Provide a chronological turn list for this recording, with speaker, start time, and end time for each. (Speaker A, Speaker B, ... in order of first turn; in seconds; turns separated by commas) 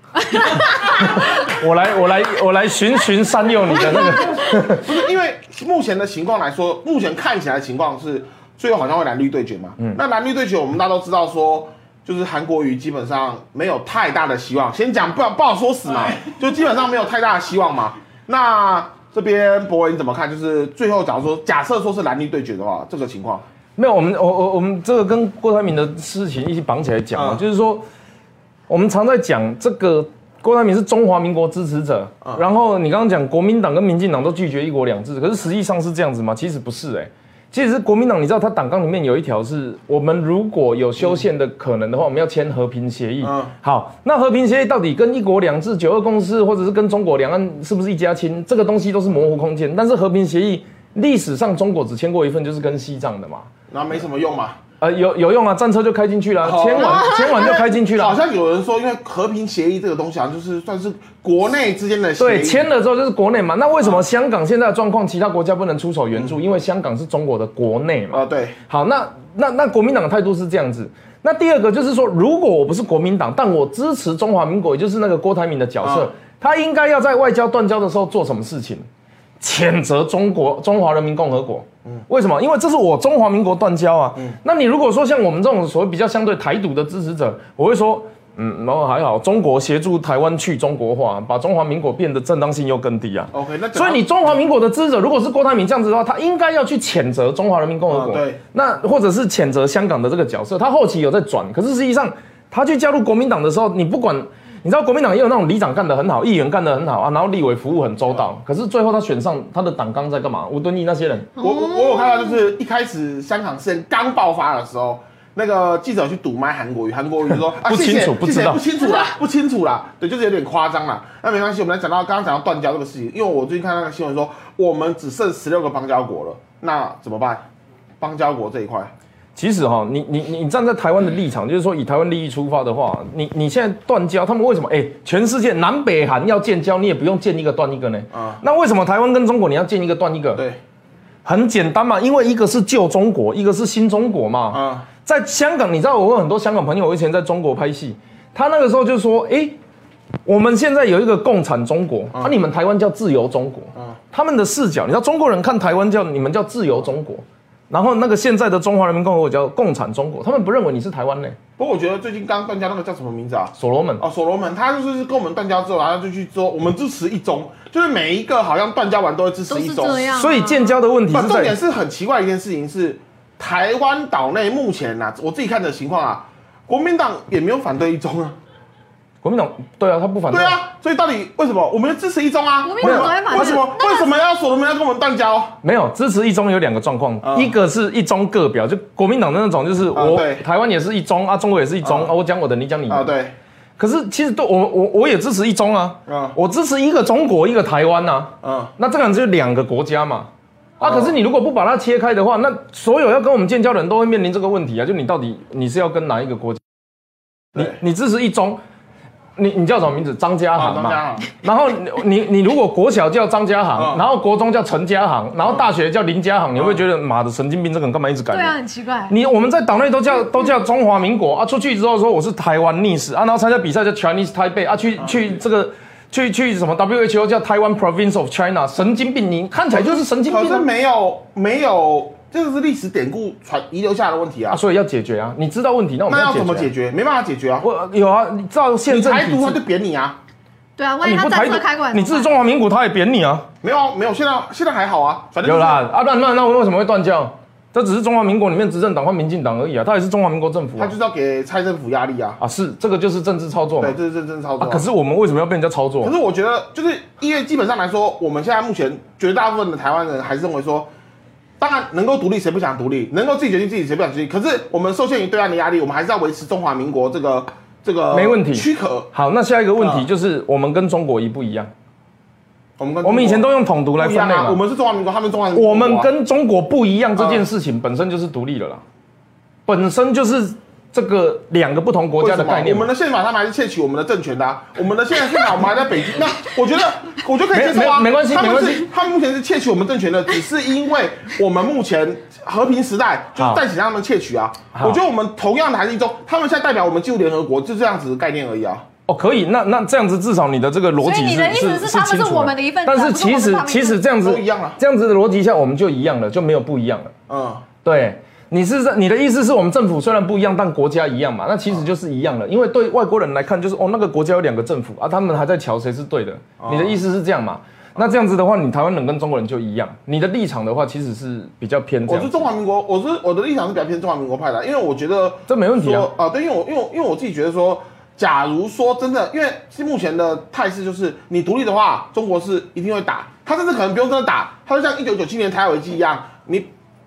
Speaker A: 0.3-0.9, Speaker B: 0.4-4.9, Speaker C: 3.7-23.4, Speaker B: 23.8-27.8, Speaker C: 27.1-27.4, Speaker B: 28.7-53.5, Speaker C: 43.2-43.5, Speaker C: 53.7-54.6, Speaker B: 54.8-58.2, Speaker C: 56.4-62.7, Speaker A: 56.8-57.5, Speaker B: 62.2-78.8, Speaker C: 68.1-68.6, Speaker C: 75.8-76.1, Speaker B: 79.4-111.3, Speaker C: 93.3-94.3, Speaker C: 97.9-98.4, Speaker A: 111.4-112.4, Speaker C: 111.4-127.4, Speaker B: 117.3-118.6, Speaker A: 118.8-119.1, Speaker C: 128.0-128.9, Speaker B: 129.3-140.4, Speaker C: 138.1-138.4, Speaker B: 141.2-149.6, Speaker C: 144.5-144.9, Speaker B: 150.2-161.4, Speaker C: 161.6-170.1, Speaker B: 163.6-164.0, Speaker A: 169.5-170.8, Speaker B: 170.1-171.6, Speaker C: 171.1-178.3, Speaker B: 179.2-180.6, Speaker C: 180.3-185.5, Speaker A: 182.6-184.1, Speaker B: 182.8-183.6, Speaker B: 185.6-193.1, Speaker C: 187.2-187.5, Speaker C: 189.9-190.4, Speaker C: 191.8-192.1, Speaker C: 192.9-193.3, Speaker B: 193.8-206.6, Speaker C: 196.1-196.3, Speaker C: 198.4-198.7, Speaker C: 200.8-201.1, Speaker B: 207.5-208.6, Speaker B: 209.3-218.6, Speaker C: 210.5-211.3, Speaker C: 213.8-214.0, Speaker A: 218.3-219.1, Speaker B: 219.1-230.7, Speaker C: 229.7-234.6, Speaker B: 234.5-236.7, Speaker C: 236.1-237.7, Speaker B: 237.6-239.6, Speaker C: 238.9-240.2, Speaker A: 240.8-242.3, Speaker B: 241.0-243.5, Speaker C: 243.6-245.8, Speaker B: 245.4-250.9, Speaker C: 250.8-252.4, Speaker B: 252.4-254.0, Speaker C: 253.8-254.8, Speaker B: 254.6-256.1, Speaker C: 256.0-260.9, Speaker C: 261.6-269.1, Speaker B: 268.1-271.7, Speaker C: 269.8-270.1, Speaker C: 272.8-276.1, Speaker B: 273.0-274.6, Speaker B: 275.5-278.8, Speaker C: 277.2-277.4, Speaker B: 279.6-282.9, Speaker C: 282.2-298.8, Speaker B: 287.5-288.9, Speaker B: 293.3-293.6, Speaker B: 299.1-307.1, Speaker A: 301.0-304.0, Speaker C: 304.2-304.8, Speaker C: 307.3-307.6, Speaker B: 307.8-322.3, Speaker C: 316.6-317.0, Speaker C: 322.1-336.7, Speaker B: 325.5-326.1